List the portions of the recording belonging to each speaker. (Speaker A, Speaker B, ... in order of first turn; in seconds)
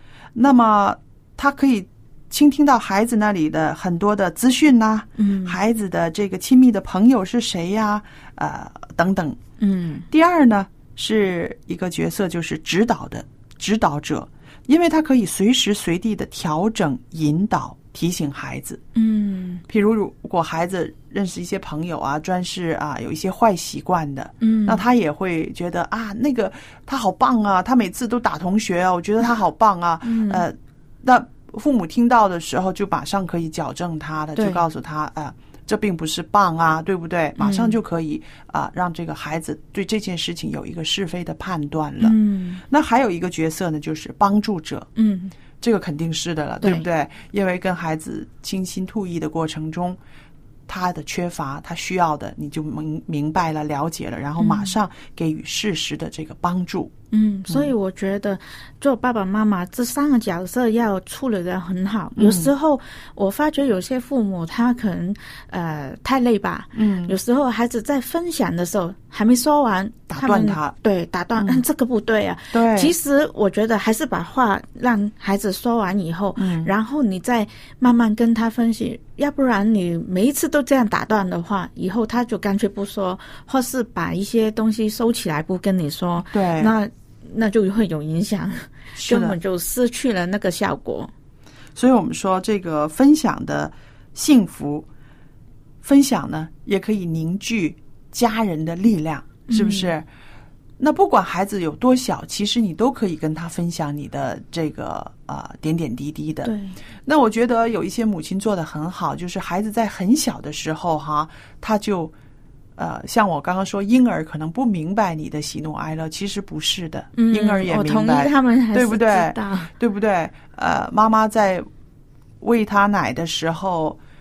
Speaker A: 0.3-9.4, 10.1-18.8, 19.7-42.1, 42.7-44.9, 45.6-50.0, 50.7-56.9, 62.1-62.5, 66.7-67.2, 70.1-70.7, 71.4-71.6, 72.5-72.9, 76.4-76.7, 86.3-86.7, 89.0-89.4, 91.7-94.9, 95.8-100.0, 100.8-106.5, 107.0-112.1, 112.8-121.7, 122.4-124.0
Speaker B: 5.2-5.6, 9.6-10.1, 18.9-19.6, 24.4-24.8, 30.0-30.4, 34.4-34.6, 37.4-37.8, 42.0-42.6, 45.0-45.3, 54.4-54.7, 57.1-91.1, 99.5-99.9, 106.4-106.8, 117.1-119.7